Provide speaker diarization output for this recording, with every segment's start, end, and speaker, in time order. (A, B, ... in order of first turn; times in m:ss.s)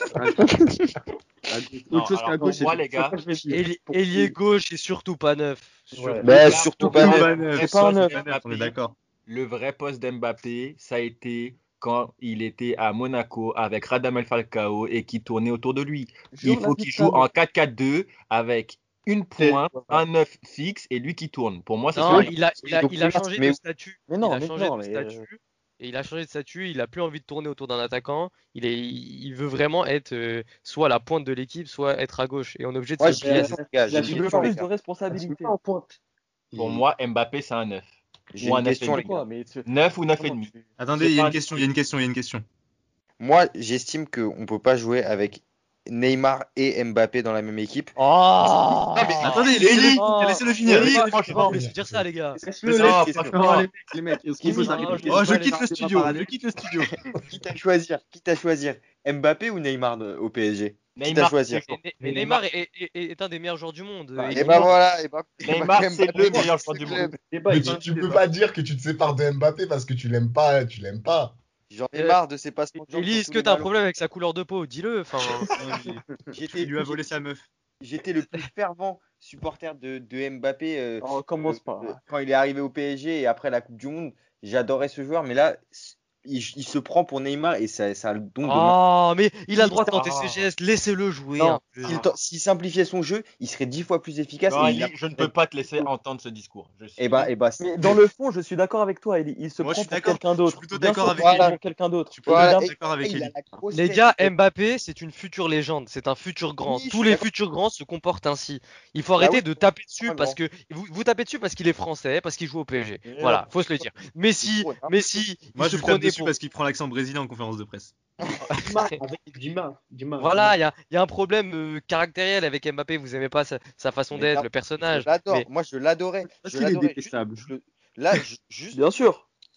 0:01.5-0:02.8 A
0:01.9-0:03.2 B
0:02.2-0:03.6 C
0:03.5-0:06.3 D
0:03.9-0:04.3 E
0:05.9-0:06.4 C
0:06.2-0:07.3 F
0:06.3-0:22.4 B
0:06.8-0:08.2 E
0:06.9-0:09.0 G
0:16.3-0:17.3 E
0:19.4-0:20.0 E
0:22.0-0:23.6 F
0:22.0-0:33.6 D
0:24.1-0:25.2 E
0:33.0-0:34.7 F
0:33.1-0:36.0 C
0:34.0-0:35.5 E
0:36.5-0:36.8 C
0:36.6-0:39.1 B
0:38.3-0:39.1 F
0:38.9-0:40.7 E
0:39.6-0:41.6 B
0:40.8-0:42.4 G
0:43.2-0:48.0 F
0:48.0-0:52.4 D
0:49.0-0:49.6 F
0:49.2-0:51.2 G
0:49.5-0:50.0 B
0:50.7-0:51.6 B
0:51.2-0:52.1 H
0:52.4-0:53.7 C
0:52.6-0:56.2 A
0:52.7-0:53.6 F
0:52.7-0:53.7 B
0:54.4-0:55.4 D
0:54.4-0:55.3 E
0:54.5-0:54.9 F
0:55.1-0:56.9 G
0:57.3-1:01.6 F
1:01.0-1:01.8 B
1:01.6-1:04.8 D
1:02.0-1:02.4 C
1:04.2-1:07.2 F
1:05.4-1:07.2 B
1:07.2-1:08.2 C
1:07.5-1:11.4 H
1:11.7-1:13.7 F
1:12.8-1:15.5 D
1:15.5-1:16.0 G
1:16.4-1:17.0 F
1:16.5-1:17.4 G
1:17.8-1:28.8 F
1:21.0-1:22.0 E
1:28.4-1:32.0 D
1:29.6-1:30.1 E
1:29.9-1:30.4 B
1:31.8-1:35.3 F
1:34.5-1:37.3 B
1:37.0-1:38.0 F
1:37.6-1:42.7 E
1:39.6-1:41.5 G
1:41.2-1:41.6 F
1:42.1-1:43.4 G
1:42.3-1:44.3 F
1:43.7-1:56.4 D
1:46.6-1:47.2 F
1:49.2-1:50.4 F
1:53.1-1:55.2 F
1:55.5-1:58.0 G
1:58.5-1:58.9 D
1:58.6-2:00.5 C
2:00.2-2:05.5 D
2:04.1-2:08.8 F
2:06.4-2:07.4 A
2:08.7-2:09.3 E